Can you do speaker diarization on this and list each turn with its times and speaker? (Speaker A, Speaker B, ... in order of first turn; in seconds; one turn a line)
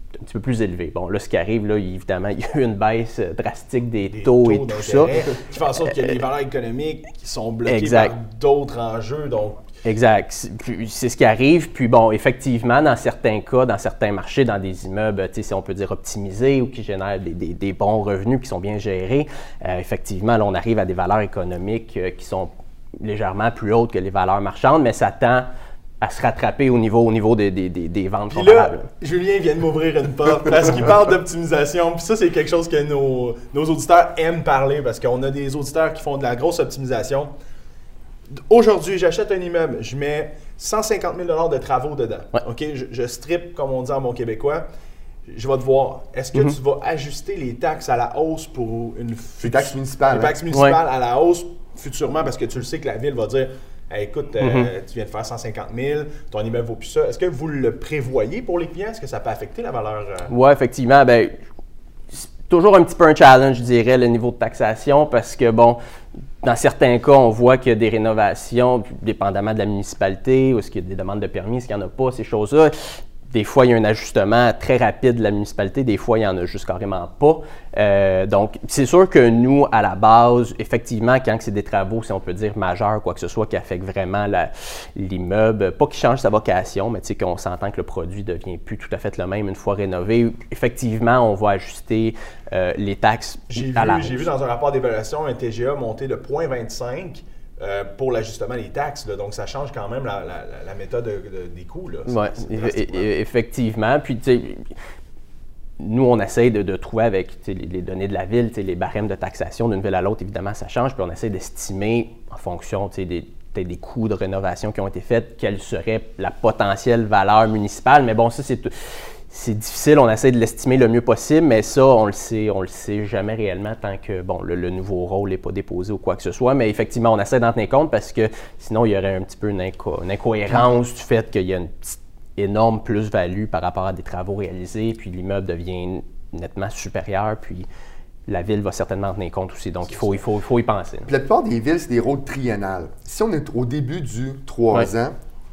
Speaker A: 0.2-5.1
Speaker B: 4.1-9.6
Speaker A: 5.8-6.2
Speaker A: 7.7-8.1
Speaker A: 9.8-25.5
Speaker A: 26.0-28.9
Speaker B: 28.3-37.3
Speaker B: 38.4-44.6
Speaker B: 45.3-60.3
Speaker C: 49.4-50.4
Speaker A: 50.5-50.8
Speaker A: 54.4-54.7
Speaker A: 60.3-61.3
Speaker A: 62.1-65.8
Speaker A: 66.4-72.7
Speaker A: 73.3-94.3
Speaker B: 93.5-103.1
Speaker A: 102.1-104.7
Speaker A: 105.8-118.7
Speaker A: 119.3-137.7
Speaker A: 138.3-141.1
Speaker C: 141.1-145.2